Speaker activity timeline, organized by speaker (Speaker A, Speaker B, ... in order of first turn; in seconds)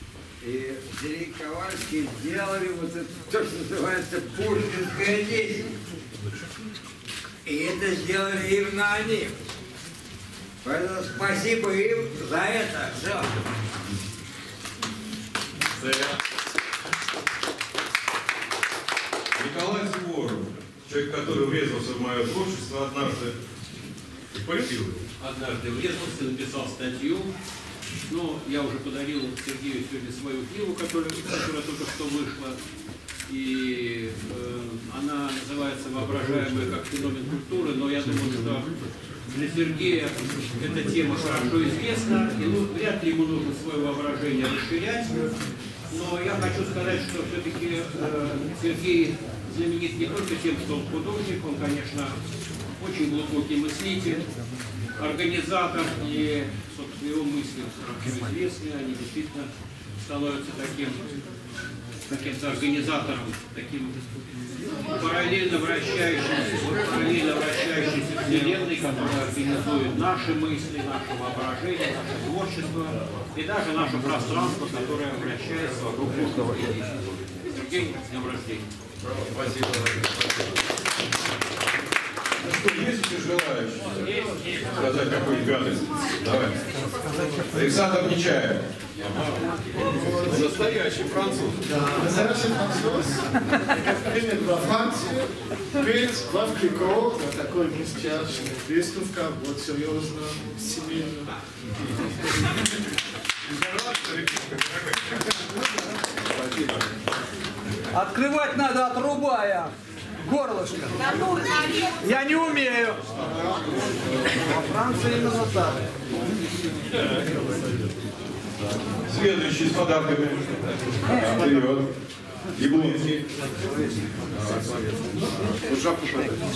Speaker A: 0.4-5.7, 7.5-9.3, 10.6-13.3
Speaker B: 15.8-16.1, 19.3-23.4, 24.4-25.0, 79.0-80.1, 82.4-84.1, 84.7-86.5, 87.5-89.3, 90.1-91.6, 119.1-120.5, 121.1-121.9, 122.5-123.2, 124.4-124.7
Speaker C: 25.2-27.3, 28.1-32.6, 33.3-38.7, 39.3-45.3, 45.9-52.2, 52.8-54.2, 55.0-59.5, 60.0-61.0, 62.1-64.0, 64.9-78.7, 84.0-84.7
Speaker D: 89.8-90.6, 91.7-101.3
Speaker E: 107.9-109.7, 110.2-111.3, 112.0-113.5, 114.4-115.8